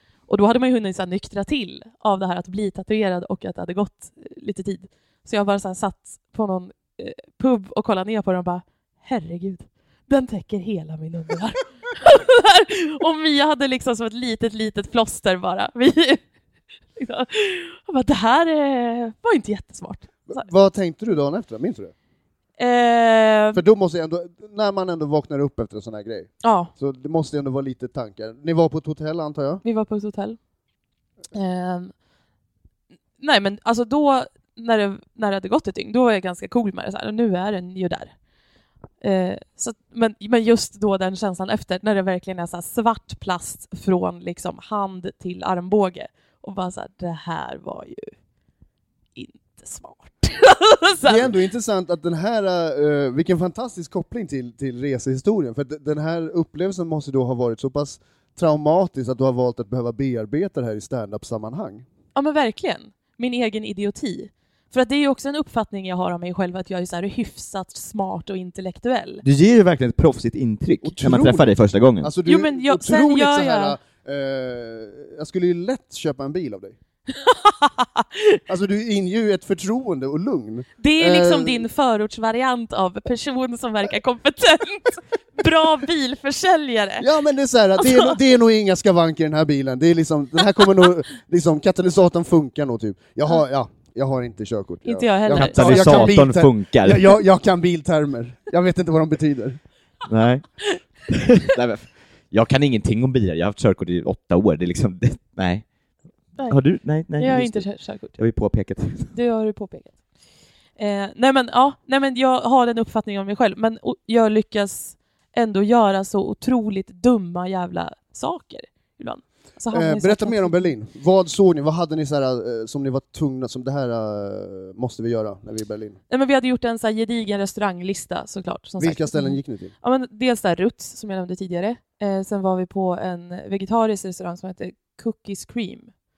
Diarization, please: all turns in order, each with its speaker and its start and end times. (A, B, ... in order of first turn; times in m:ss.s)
0:00.3-0:16.2 A
0:17.0-0:20.4 A
0:20.3-0:21.9 B
0:22.6-0:23.6 A
0:23.5-0:29.6 B
0:26.4-0:26.7 A
0:29.6-0:30.4 A
0:31.3-0:31.9 A
0:33.2-0:38.1 A
0:39.0-0:48.1 A
0:49.2-0:51.3 A
0:51.0-1:01.8 B
1:02.1-1:09.2 A
1:09.2-1:12.1 C
1:10.8-1:11.5 B
1:12.0-1:16.8 B
1:12.2-1:13.8 A
1:17.1-1:18.4 A
1:18.5-1:21.6 B
1:20.8-1:27.0 A
1:27.0-1:39.6 B
1:27.8-1:28.1 A
1:34.8-1:36.2 A
1:35.3-1:37.1 C
1:40.1-1:45.6 C
1:46.4-1:48.2 A
1:46.4-1:49.1 C
1:49.1-1:50.0 A
1:50.8-2:00.7 A
1:59.7-2:06.0 B
2:06.1-2:15.9 A
2:08.8-2:09.7 B